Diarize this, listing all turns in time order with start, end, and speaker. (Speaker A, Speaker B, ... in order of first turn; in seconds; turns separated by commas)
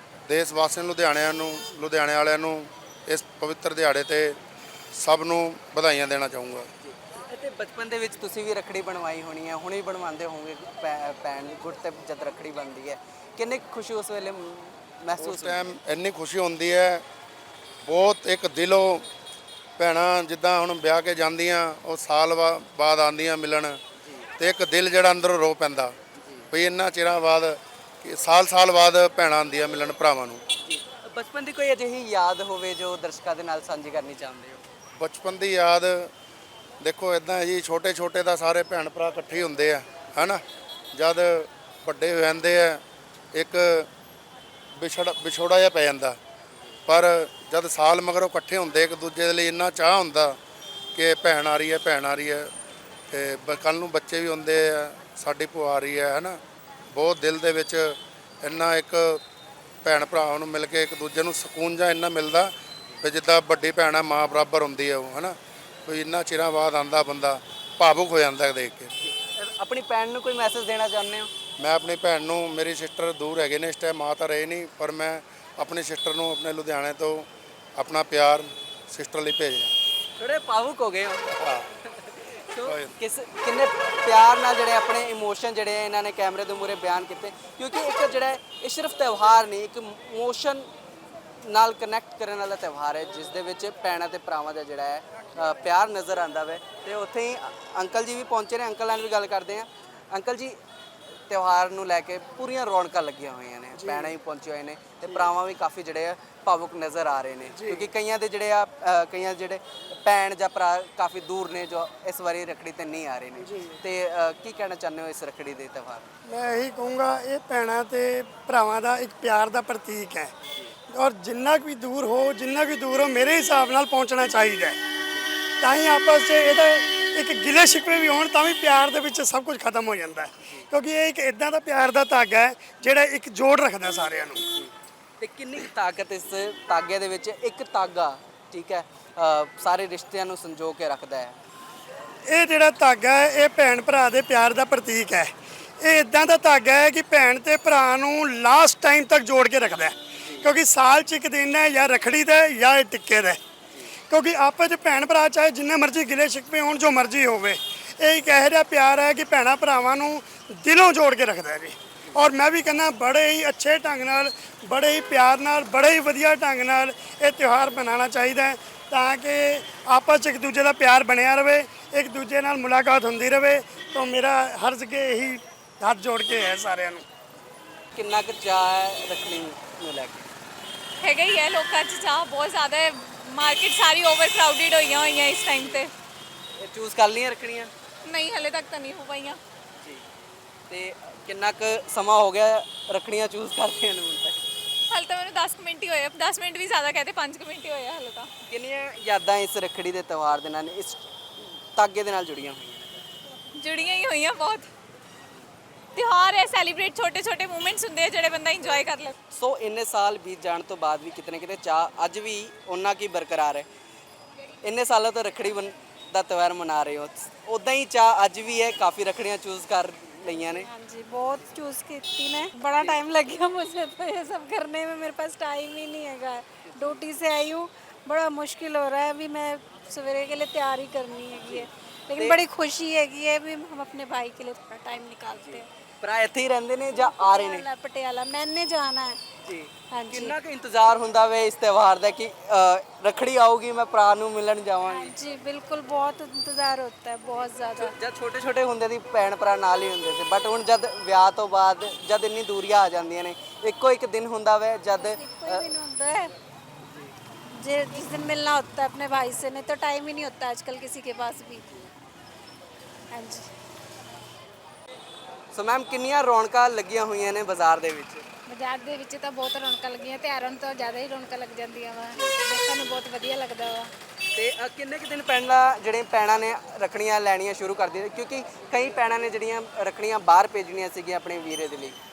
Speaker A: 0.3-4.3, Speaker A: 5.0-6.7, Speaker B: 6.8-15.8, Speaker A: 15.2-17.0, Speaker A: 17.8-19.0, Speaker A: 19.8-23.8, Speaker A: 24.4-25.9, Speaker B: 26.2-26.4, Speaker A: 26.5-30.4, Speaker B: 30.6-34.6, Speaker A: 35.0-36.1, Speaker A: 36.8-40.4, Speaker A: 40.9-42.8, Speaker A: 43.3-43.9, Speaker A: 44.8-46.2, Speaker A: 46.9-50.4, Speaker A: 50.9-52.5, Speaker A: 53.1-56.4, Speaker A: 56.9-59.2, Speaker A: 59.8-65.3, Speaker A: 65.8-68.9, Speaker B: 69.0-71.3, Speaker A: 71.6-77.2, Speaker A: 77.8-79.7, Speaker B: 80.2-81.3, Speaker A: 81.3-81.7, Speaker B: 81.9-90.7, Speaker A: 82.6-82.9, Speaker B: 91.5-100.6, Speaker B: 101.3-116.1, Speaker C: 116.2-120.3, Speaker C: 120.9-124.8, Speaker C: 125.6-134.4, Speaker B: 134.5-141.4, Speaker C: 142.3-153.4, Speaker C: 154.1-177.0, Speaker B: 177.9-180.3, Speaker D: 181.0-185.9, Speaker B: 186.6-187.7, Speaker D: 188.1-189.4, Speaker B: 190.7-194.4, Speaker D: 195.0-198.3, Speaker B: 198.5-201.0, Speaker B: 201.8-203.0, Speaker E: 203.6-204.2, Speaker D: 204.1-204.7, Speaker D: 206.0-209.1, Speaker B: 209.3-213.7, Speaker B: 214.6-220.7, Speaker E: 220.6-235.7, Speaker B: 226.7-227.0, Speaker B: 231.5-232.4, Speaker B: 235.4-237.7, Speaker E: 236.9-239.2, Speaker B: 239.4-245.1, Speaker E: 239.9-240.3, Speaker E: 244.9-247.9, Speaker B: 247.8-255.6, Speaker E: 254.9-256.3, Speaker E: 257.6-261.6, Speaker B: 265.5-268.2, Speaker F: 268.5-273.9, Speaker B: 274.3-282.0